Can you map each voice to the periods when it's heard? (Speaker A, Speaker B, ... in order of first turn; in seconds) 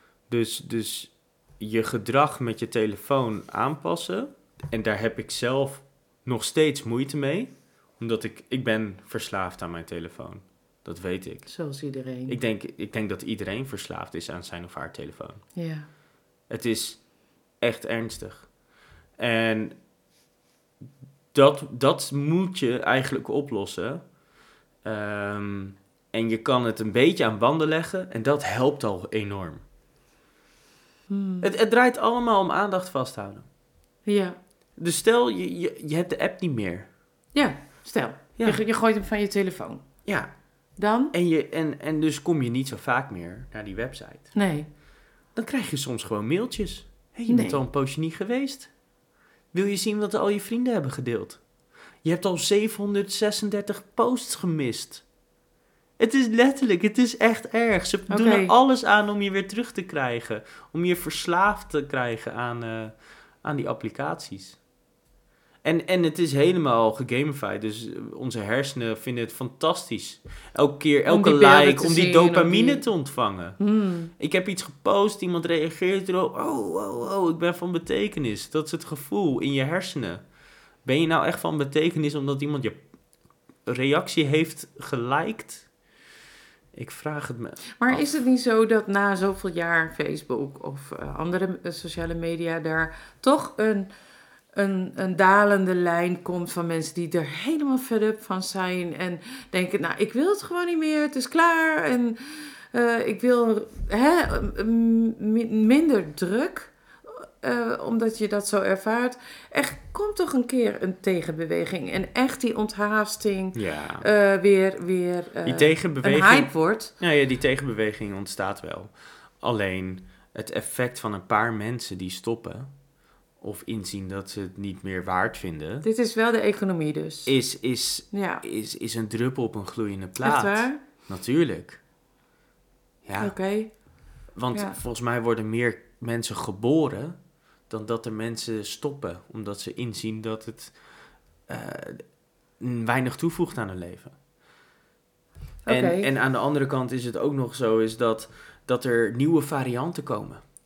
Speaker A: 0.3-11.5, 12.3-15.4, 16.5-17.0, 17.6-18.5, 19.2-19.7, 21.3-24.0, 24.8-29.6, 31.4-33.4, 34.8-36.9, 38.4-38.6, 41.1-44.3, 45.3-48.7, 49.5-51.4, 52.0-55.0, 56.0-64.6, 65.6-73.6, 74.2-80.2, 80.8-82.8, 83.7-85.7, 86.7-88.0, 113.5-114.0, 115.4-122.7, 123.4-125.8, 127.2-131.8, 133.0-133.3, 134.3-137.2, 137.7-140.7, 141.5-142.0, 142.6-144.1, 145.7-150.4
Speaker B: 11.5-12.4, 15.5-15.9, 31.1-31.5, 34.0-34.4, 37.3-39.8, 40.8-41.1, 44.3-44.7, 47.3-47.6, 58.1-58.5, 71.1-72.8, 73.6-74.1, 87.8-93.9, 94.5-102.2, 102.7-116.9, 125.8-127.3, 128.1-128.4, 130.2-130.8, 133.2-133.7, 134.5-134.8, 145.7-146.1